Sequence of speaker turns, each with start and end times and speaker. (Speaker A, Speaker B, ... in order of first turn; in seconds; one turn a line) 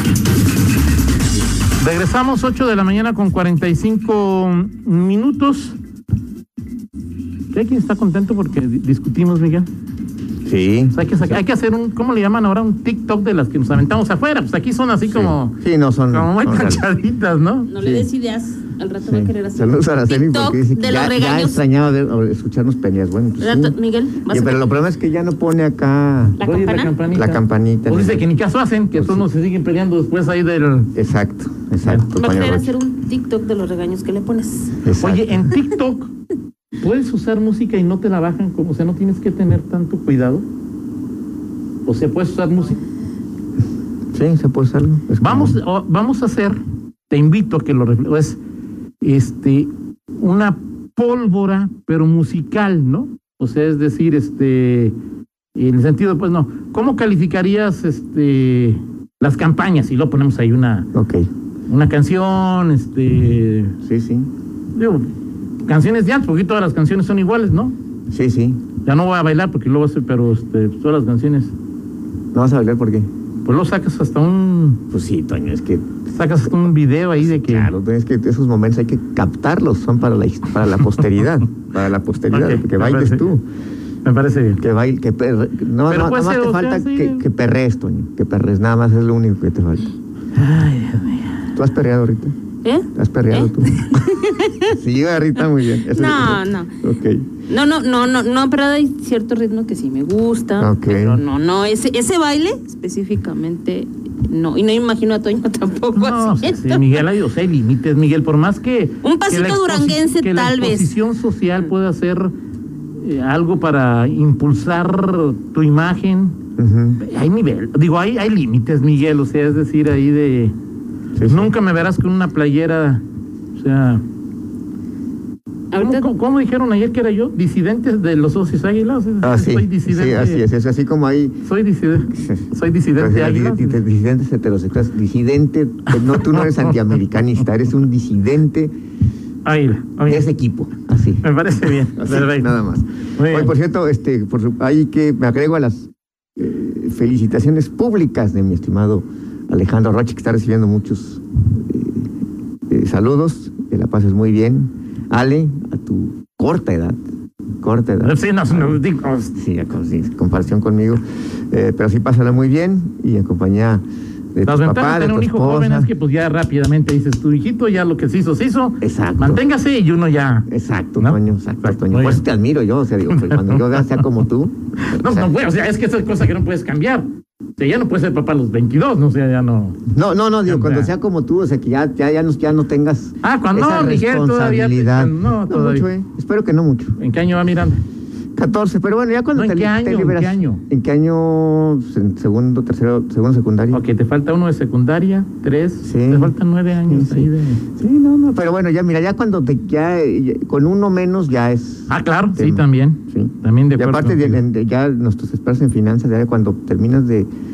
Speaker A: 1.8-5.8
Speaker A: 7.5-9.7
Speaker B: 10.5-11.0
Speaker A: 10.9-17.7
Speaker B: 15.1-16.8
Speaker C: 17.7-21.6
Speaker B: 17.8-18.1
Speaker B: 19.0-23.8
Speaker C: 23.4-24.7
Speaker B: 24.3-26.4
Speaker C: 26.4-26.9
Speaker A: 26.4-30.9
Speaker B: 27.1-28.3
Speaker B: 28.9-29.3
Speaker B: 30.9-32.8
Speaker C: 32.1-34.8
Speaker B: 34.8-35.5
Speaker A: 35.0-36.1
Speaker A: 36.8-40.4
Speaker A: 41.9-42.8
Speaker B: 44.1-45.6
Speaker A: 45.2-48.4
Speaker A: 49.0-55.0
Speaker A: 55.5-60.9
Speaker B: 60.9-61.3
Speaker A: 61.7-63.8
Speaker B: 63.9-64.3
Speaker A: 64.8-65.1
Speaker A: 65.6-67.7
Speaker B: 68.1-68.6
Speaker A: 68.8-71.5
Speaker B: 72.3-73.1
Speaker A: 73.4-74.8
Speaker B: 74.9-75.9
Speaker A: 76.1-77.7
Speaker B: 77.2-83.4
Speaker A: 82.3-83.2
Speaker A: 84.0-84.6
Speaker B: 84.6-89.9
Speaker A: 85.9-87.2
Speaker A: 90.3-91.4
Speaker B: 91.5-92.3
Speaker C: 92.6-94.8
Speaker B: 92.9-93.9
Speaker B: 94.7-97.3
Speaker C: 95.9-96.7
Speaker C: 97.5-107.0
Speaker B: 100.6-101.2
Speaker A: 105.9-112.3
Speaker C: 109.0-111.0
Speaker A: 113.0-116.4
Speaker B: 116.6-117.0
Speaker A: 117.0-120.5
Speaker B: 121.2-121.5
Speaker A: 121.2-123.0
Speaker A: 123.6-124.0
Speaker C: 125.7-126.1
Speaker A: 125.8-130.4
Speaker B: 129.2-131.4
Speaker A: 131.4-133.8
Speaker B: 132.1-138.7
Speaker A: 135.9-136.8
Speaker A: 139.4-140.3
Speaker B: 140.1-152.1
Speaker A: 141.2-142.5
Speaker A: 143.2-143.5
Speaker B: 152.7-157.0
Speaker B: 157.6-158.8
Speaker A: 158.0-159.4
Speaker B: 159.3-163.8
Speaker B: 164.3-165.9
Speaker A: 164.4-172.2
Speaker B: 168.8-169.4
Speaker B: 170.5-175.3
Speaker A: 173.1-174.0
Speaker A: 174.8-177.1
Speaker A: 177.6-179.8
Speaker B: 179.9-187.0
Speaker A: 180.4-180.9
Speaker A: 183.2-185.9
Speaker A: 187.0-187.8
Speaker B: 188.3-193.8
Speaker A: 189.3-190.6
Speaker A: 193.7-197.6
Speaker B: 195.8-196.3
Speaker B: 196.9-207.3
Speaker A: 201.9-204.4